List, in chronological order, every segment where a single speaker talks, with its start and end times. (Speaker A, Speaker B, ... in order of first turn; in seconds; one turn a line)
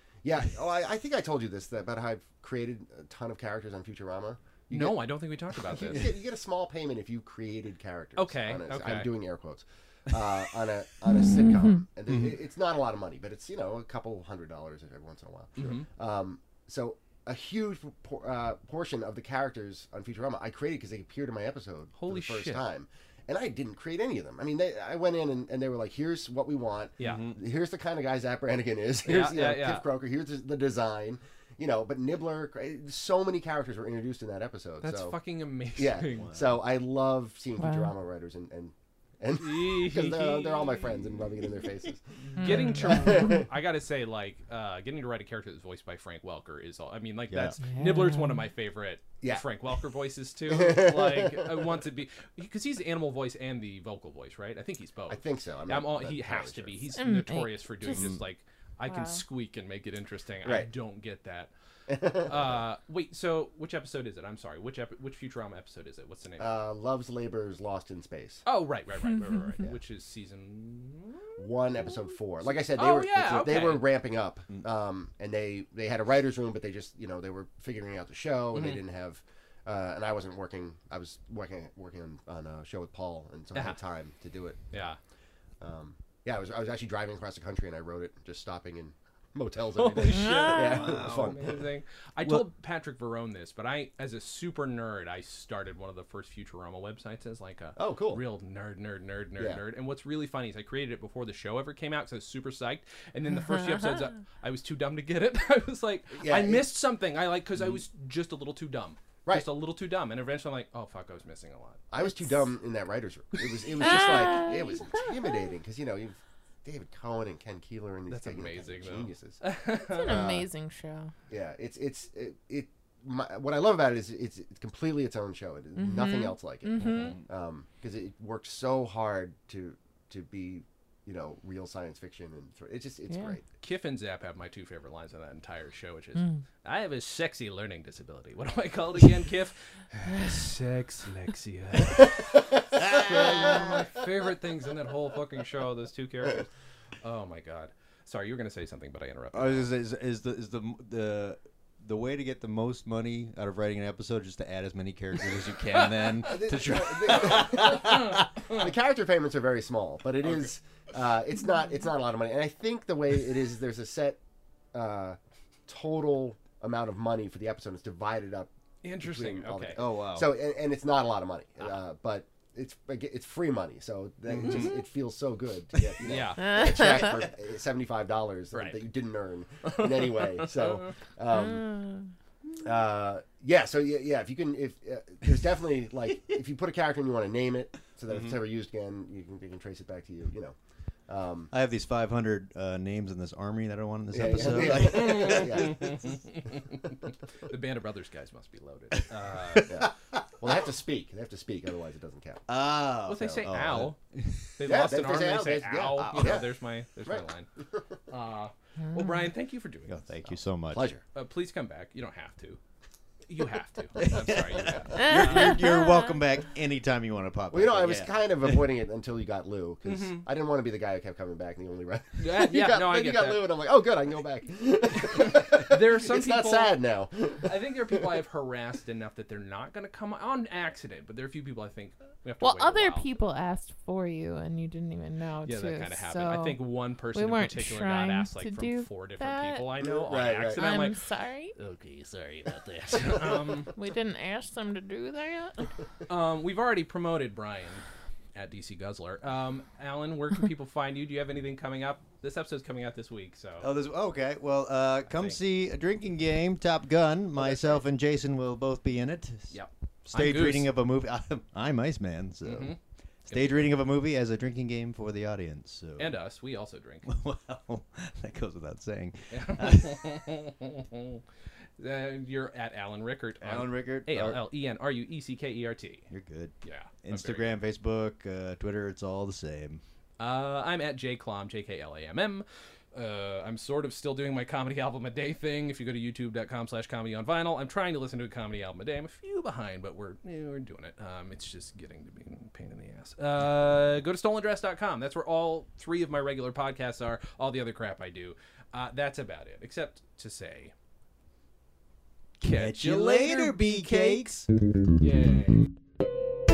Speaker A: 0.2-5.0
Speaker B: 4.7-6.2
Speaker A: 5.5-35.1
Speaker B: 8.2-9.1
Speaker C: 11.2-11.8
Speaker B: 15.6-15.9
Speaker B: 22.0-22.6
Speaker B: 27.0-27.3
Speaker D: 27.0-27.4
Speaker B: 29.0-29.8
Speaker B: 34.8-36.3
Speaker A: 35.7-43.5
Speaker D: 36.1-36.5
Speaker C: 37.6-37.9
Speaker B: 39.4-40.9
Speaker B: 42.3-61.5
Speaker C: 42.4-43.4
Speaker D: 47.3-47.6
Speaker C: 47.6-48.4
Speaker A: 49.2-49.5
Speaker A: 50.5-51.8
Speaker A: 55.1-57.0
Speaker C: 57.0-58.1
Speaker D: 57.9-58.2
Speaker C: 58.9-59.2
Speaker A: 60.4-60.7
Speaker A: 61.9-62.6
Speaker B: 62.2-66.5
Speaker A: 66.4-68.4
Speaker B: 68.5-71.4
Speaker A: 71.4-84.6
Speaker B: 72.7-73.9
Speaker B: 78.5-78.8
Speaker B: 83.5-83.8
Speaker B: 84.7-85.0
Speaker A: 85.6-91.7
Speaker B: 89.8-111.8
Speaker C: 90.0-90.9
Speaker D: 90.8-91.6
Speaker A: 97.8-98.2
Speaker A: 99.4-99.6
Speaker A: 106.1-106.7
Speaker A: 111.9-119.4
Speaker B: 113.8-114.4
Speaker C: 113.8-115.0
Speaker B: 118.1-120.2
Speaker C: 119.9-121.1
Speaker A: 120.0-120.5
Speaker A: 121.3-133.4
Speaker C: 125.8-127.1
Speaker D: 126.8-127.2
Speaker C: 133.1-133.4
Speaker B: 133.6-146.5
Speaker D: 142.8-143.7
Speaker B: 147.0-149.7
Speaker D: 149.3-158.5
Speaker A: 156.2-164.2
Speaker A: 164.7-168.5
Speaker B: 168.8-169.8
Speaker A: 169.0-181.8
Speaker D: 169.7-170.3
Speaker D: 174.3-174.8
Speaker B: 176.0-177.0
Speaker C: 176.4-177.1
Speaker B: 178.5-178.9
Speaker B: 179.6-180.9
Speaker A: 182.6-190.5
Speaker D: 188.1-188.4
Speaker A: 191.1-191.5
Speaker D: 191.5-196.1
Speaker A: 194.1-196.1
Speaker B: 194.6-199.8
Speaker D: 199.6-199.8
Speaker A: 199.6-202.4
Speaker D: 202.5-204.8
Speaker B: 203.1-204.0
Speaker B: 204.6-207.5
Speaker A: 204.6-206.5
Speaker D: 206.0-206.4
Speaker A: 207.0-207.8
Speaker B: 208.1-209.9
Speaker D: 209.9-210.9
Speaker A: 210.7-211.0
Speaker B: 211.1-212.6
Speaker B: 213.2-215.6
Speaker D: 213.9-218.6
Speaker C: 215.0-216.1
Speaker A: 217.5-228.2
Speaker B: 219.8-220.2
Speaker B: 222.2-223.4
Speaker B: 225.0-226.7
Speaker B: 227.4-233.1
Speaker C: 232.4-236.6
Speaker B: 235.4-240.9
Speaker C: 237.1-239.7
Speaker A: 239.8-240.7
Speaker C: 240.6-241.5
Speaker B: 241.5-243.7
Speaker C: 243.7-245.7
Speaker B: 246.1-253.7
Speaker D: 253.6-259.6
Speaker B: 255.1-255.4
Speaker B: 257.4-257.8
Speaker B: 259.5-260.7
Speaker D: 260.1-262.7
Speaker B: 262.4-262.8
Speaker D: 263.3-266.2
Speaker B: 263.3-263.7
Speaker B: 266.0-267.1
Speaker D: 267.1-270.2
Speaker B: 269.3-271.2
Speaker B: 271.8-276.1
Speaker D: 273.4-274.4
Speaker D: 276.1-279.8
Speaker B: 276.6-277.6
Speaker B: 280.2-300.7
Speaker D: 302.4-304.4
Speaker B: 302.4-304.4
Speaker B: 305.0-305.7